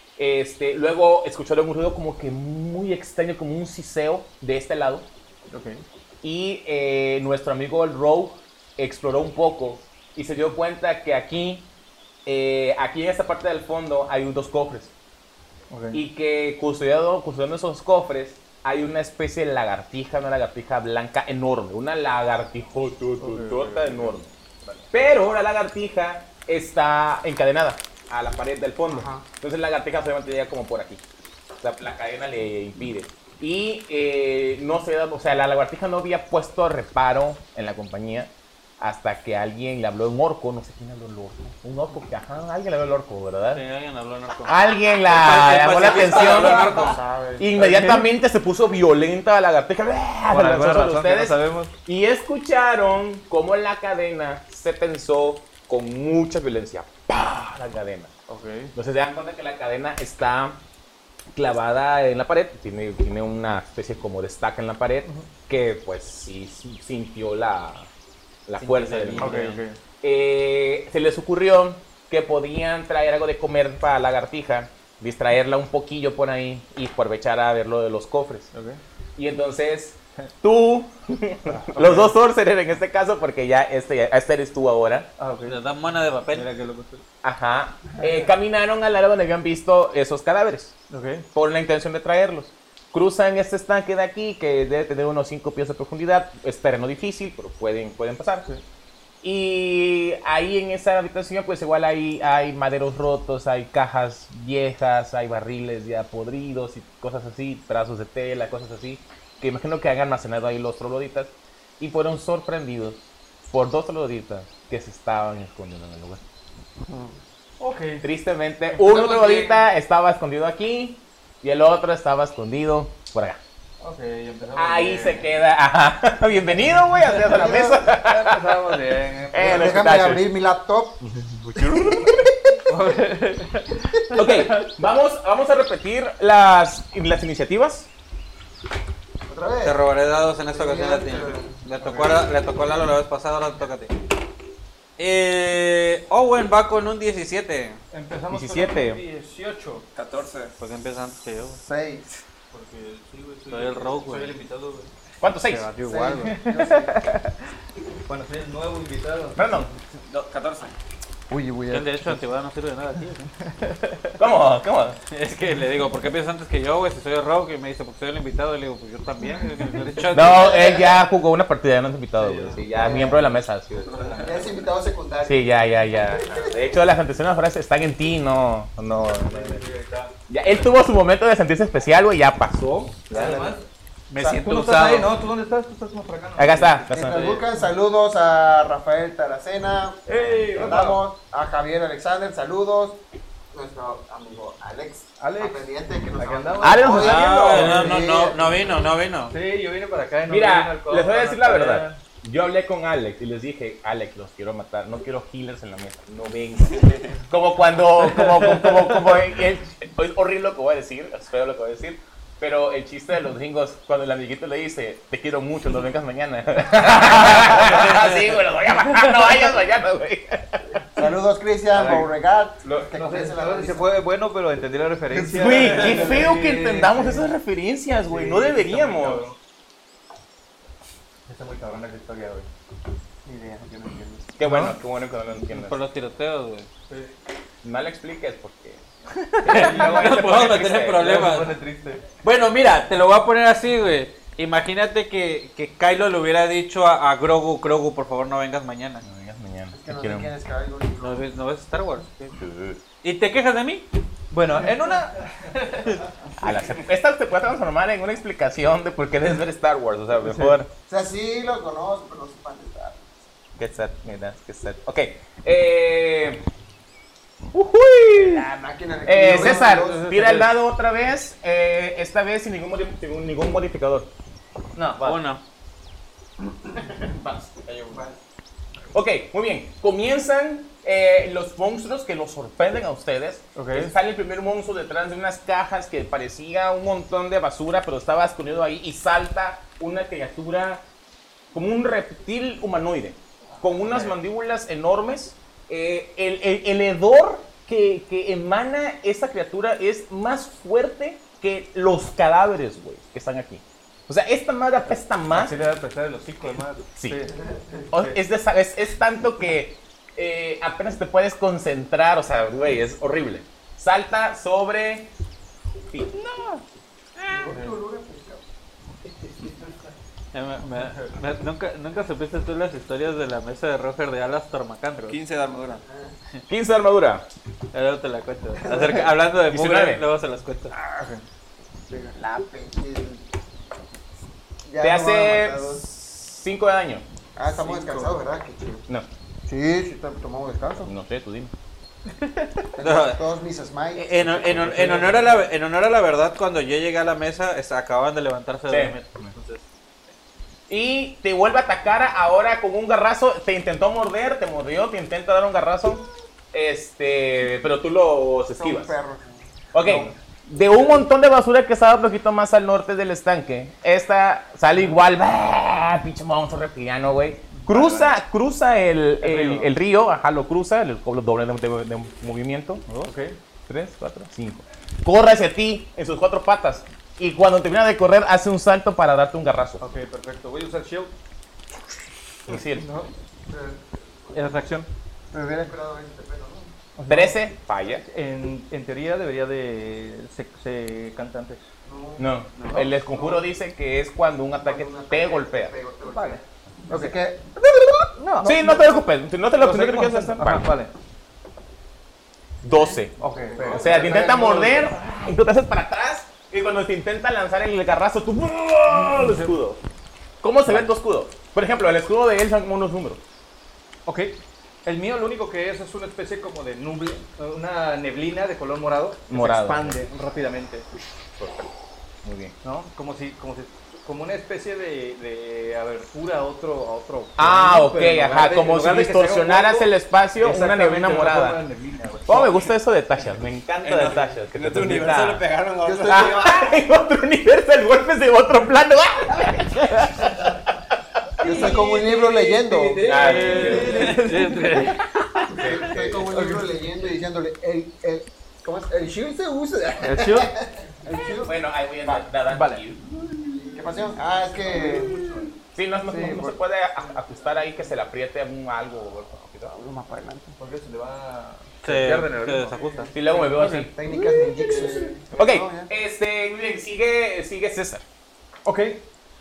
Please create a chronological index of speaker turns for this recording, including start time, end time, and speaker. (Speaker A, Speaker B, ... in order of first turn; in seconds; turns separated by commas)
Speaker A: 0.2-5.1, Speaker B: 5.5-5.8, Speaker A: 6.2-11.7, Speaker A: 12.2-14.9, Speaker B: 15.7-16.0, Speaker A: 15.9-24.3, Speaker B: 23.2-24.9, Speaker A: 24.9-31.0, Speaker C: 28.9-29.2, Speaker A: 31.6-43.6, Speaker D: 43.5-44.5, Speaker A: 44.4-58.1, Speaker D: 45.1-47.0, Speaker C: 45.8-47.7, Speaker B: 47.6-48.1, Speaker B: 50.3-51.7, Speaker B: 58.3-58.7, Speaker A: 58.8-60.6, Speaker A: 61.3-67.9, Speaker A: 68.5-78.5, Speaker D: 68.6-69.6, Speaker B: 69.2-69.8, Speaker B: 78.5-78.8, Speaker A: 79.2-85.1, Speaker B: 81.5-82.2, Speaker B: 85.2-85.6, Speaker D: 85.5-86.5, Speaker B: 86.3-87.0, Speaker A: 87.2-90.8, Speaker B: 90.9-91.3, Speaker A: 91.3-98.5, Speaker A: 99.2-116.2, Speaker C: 116.9-117.2, Speaker B: 117.6-118.1, Speaker A: 118.0-123.4, Speaker B: 118.7-119.6, Speaker B: 123.8-125.3, Speaker A: 124.5-128.8, Speaker C: 127.2-127.8, Speaker B: 127.8-129.9, Speaker A: 129.3-130.2, Speaker C: 129.4-131.0, Speaker A: 131.1-132.2, Speaker C: 131.6-132.5, Speaker B: 132.7-134.7, Speaker A: 134.1-137.9, Speaker C: 139.3-139.9, Speaker D: 139.6-143.9, Speaker C: 140.5-142.2, Speaker D: 145.0-147.8, Speaker B: 147.9-149.9, Speaker A: 148.3-149.0, Speaker E: 149.9-150.5, Speaker D: 150.6-151.6, Speaker C: 151.6-152.2, Speaker B: 152.5-154.9, Speaker D: 153.5-154.4, Speaker A: 155.2-155.7, Speaker D: 155.4-156.3, Speaker C: 155.8-157.0, Speaker B: 156.2-157.4, Speaker B: 158.1-159.7, Speaker A: 159.4-159.7, Speaker E: 160.0-160.8, Speaker C: 161.3-162.1, Speaker D: 161.7-163.3, Speaker B: 163.6-164.0, Speaker A: 164.2-165.0, Speaker D: 165.1-170.7, Speaker B: 169.7-170.0, Speaker A: 170.1-174.1, Speaker C: 170.2-171.0, Speaker B: 172.2-172.7, Speaker C: 172.7-173.2, Speaker E: 173.8-174.6, Speaker B: 174.0-174.3, Speaker C: 174.2-175.5, Speaker A: 175.2-179.6, Speaker B: 179.2-180.1, Speaker A: 180.3-183.1, Speaker C: 183.1-183.6, Speaker B: 183.1-183.6, Speaker D: 184.1-185.1, Speaker B: 184.3-186.9, Speaker A: 186.4-187.4, Speaker C: 186.9-193.0, Speaker B: 190.1-191.0, Speaker C: 193.5-198.7, Speaker B: 195.2-198.0, Speaker A: 196.6-197.7, Speaker D: 196.9-199.3, Speaker B: 199.3-202.0, Speaker A: 200.3-221.0, Speaker C: 221.0-223.9, Speaker B: 221.7-222.1, Speaker B: 223.0-227.3, Speaker C: 225.1-226.1, Speaker A: 225.3-229.2, Speaker B: 228.1-229.4, Speaker B: 231.3-232.5, Speaker B: 233.2-234.7, Speaker A: 234.4-235.8, Speaker D: 235.5-236.7, Speaker A: 237.6-238.8, Speaker D: 239.4-241.6, Speaker B: 239.4-240.4, Speaker A: 239.4-241.1, Speaker B: 240.9-242.0, Speaker D: 242.2-249.0, Speaker A: 249.0-250.3, Speaker C: 249.7-251.2, Speaker D: 251.0-252.4, Speaker A: 252.4-252.8, Speaker D: 253.0-253.9, Speaker B: 254.3-256.0, Speaker A: 256.4-260.7, Speaker B: 260.2-260.6, Speaker C: 260.9-263.0, Speaker A: 263.6-266.4, Speaker A: 267.5-268.5, Speaker C: 268.1-270.1, Speaker A: 269.1-274.1, Speaker D: 269.2-270.5, Speaker B: 274.8-275.2, Speaker D: 275.0-275.4, Speaker A: 278.9-290.8, Speaker B: 283.6-283.9, Speaker A: 291.5-305.6, Speaker B: 293.7-294.1, Speaker B: 305.3-307.3, Speaker C: 307.6-307.9, Speaker B: 307.9-308.2, Speaker A: 307.9-315.1, Speaker A: 315.9-316.6, Speaker D: 317.2-317.5, Speaker C: 317.3-318.4, Speaker C: 319.2-319.7, Speaker D: 320.3-325.2, Speaker E: 325.1-325.8, Speaker C: 325.9-326.1, Speaker A: 326.5-327.3, Speaker D: 327.7-330.7, Speaker C: 328.6-329.1, Speaker A: 329.5-330.0, Speaker B: 330.9-331.2, Speaker C: 331.9-333.2, Speaker C: 334.6-335.8, Speaker A: 334.8-337.1, Speaker C: 337.4-338.9, Speaker B: 337.6-338.1, Speaker C: 339.5-340.9, Speaker A: 340.9-341.5, Speaker C: 342.8-345.0, Speaker D: 342.8-343.2, Speaker D: 343.9-349.6, Speaker B: 344.6-345.4, Speaker A: 348.7-349.0, Speaker A: 350.7-358.9, Speaker C: 358.6-360.1, Speaker A: 359.7-373.1, Speaker B: 367.5-368.1, Speaker B: 369.2-369.7, Speaker B: 372.9-373.4, Speaker A: 373.7-379.8, Speaker B: 379.8-381.1, Speaker A: 382.5-382.9, Speaker B: 382.7-383.1, Speaker C: 383.5-384.6, Speaker B: 384.3-384.9, Speaker C: 385.3-386.7, Speaker B: 387.0-391.6, Speaker A: 387.1-388.1, Speaker C: 391.9-393.4, Speaker A: 392.2-395.7, Speaker E: 392.6-392.8, Speaker C: 394.6-398.1, Speaker B: 396.1-397.1, Speaker B: 398.1-399.1, Speaker A: 398.4-400.7, Speaker B: 399.6-400.9, Speaker A: 402.6-409.8, Speaker C: 402.7-404.9, Speaker B: 403.2-404.6, Speaker B: 408.9-409.6, Speaker A: 410.4-413.2, Speaker B: 410.6-410.9, Speaker B: 414.1-420.9, Speaker A: 419.3-420.0, Speaker A: 422.2-422.6, Speaker B: 422.6-432.7, Speaker A: 427.4-431.6, Speaker A: 432.3-435.5, Speaker E: 433.8-436.6, Speaker C: 435.8-436.7, Speaker A: 436.1-441.0, Speaker B: 441.4-445.0, Speaker C: 441.4-444.0, Speaker A: 443.0-444.1, Speaker D: 443.1-445.0, Speaker A: 445.2-446.2, Speaker C: 445.5-452.2, Speaker B: 446.1-446.8, Speaker B: 450.0-450.5, Speaker A: 451.4-453.0, Speaker B: 452.5-452.8, Speaker C: 453.5-455.4, Speaker B: 453.7-455.5, Speaker A: 455.8-459.8, Speaker C: 456.1-456.6, Speaker B: 457.0-457.9, Speaker C: 459.7-460.6, Speaker B: 460.6-465.1, Speaker D: 461.8-463.1, Speaker A: 463.1-463.9, Speaker C: 463.6-465.9, Speaker A: 465.3-468.0, Speaker B: 468.6-469.1